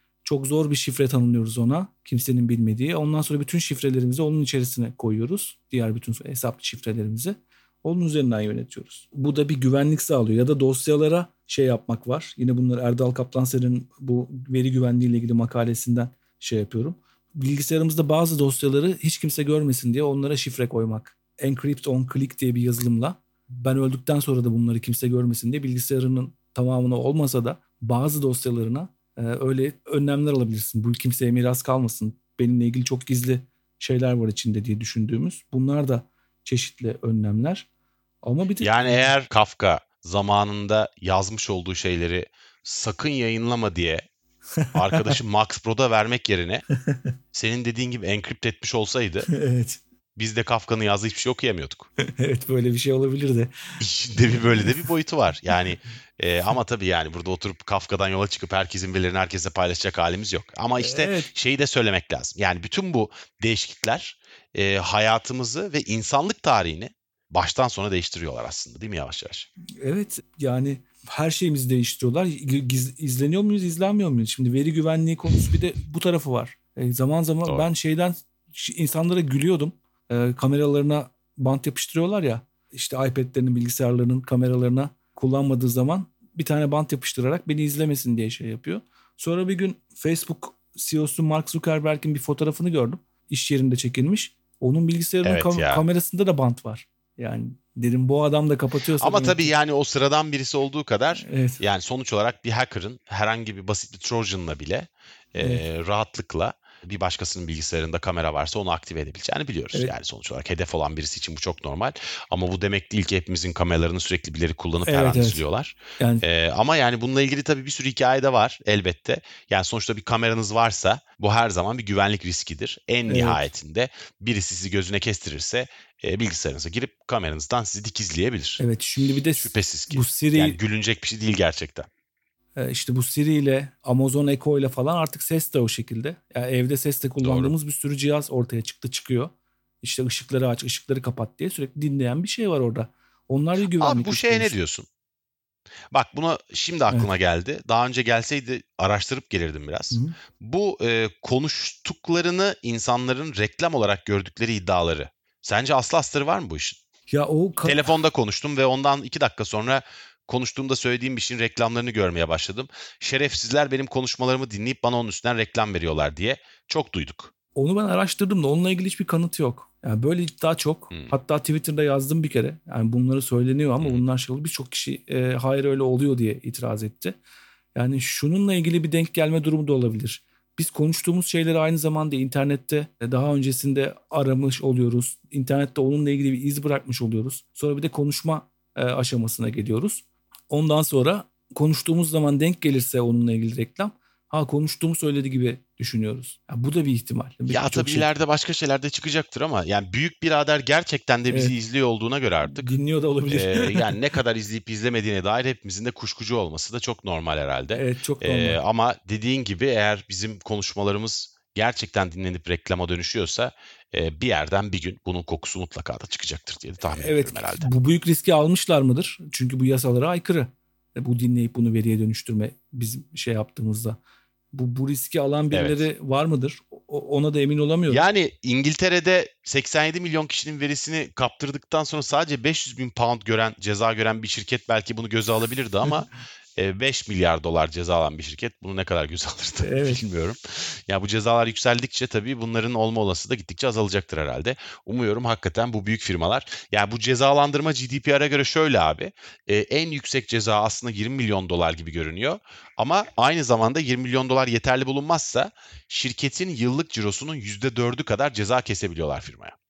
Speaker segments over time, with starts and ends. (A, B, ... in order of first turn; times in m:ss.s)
0:00.2-0:37.7 A
0:38.2-0:39.1 A
0:38.6-0:44.1 B
0:44.6-0:45.2 A
0:44.7-0:46.7 B
0:46.8-0:47.1 A
0:47.3-0:49.3 B
0:49.3-0:49.8 A
0:50.2-0:51.9 B
0:52.0-0:53.8 A
0:53.8-1:09.5 B
1:00.8-1:01.3 A
1:09.8-1:39.5 A
1:35.2-1:35.8 B
1:39.0-2:08.6 B
1:41.2-1:41.6 A
1:54.8-1:55.4 A
1:56.0-1:56.2 A
2:03.1-2:03.5 A
2:08.6-2:10.6 A
2:09.4-2:11.9 B
2:12.6-2:24.6 A
2:17.2-2:17.5 B
2:23.8-2:24.9 B
2:25.9-2:36.8 B
2:37.1-2:37.9 A
2:37.6-2:47.3 B
2:47.6-2:57.2 A
2:57.8-3:18.1 A
3:17.5-3:22.7 B
3:21.3-3:21.5 A
3:22.4-3:24.0 A
3:23.3-3:37.7 B
3:27.7-3:28.6 A
3:36.9-3:44.0 A
3:44.5-3:48.0 A
3:45.5-3:45.9 B
3:47.9-4:19.6 B
3:59.6-4:00.0 A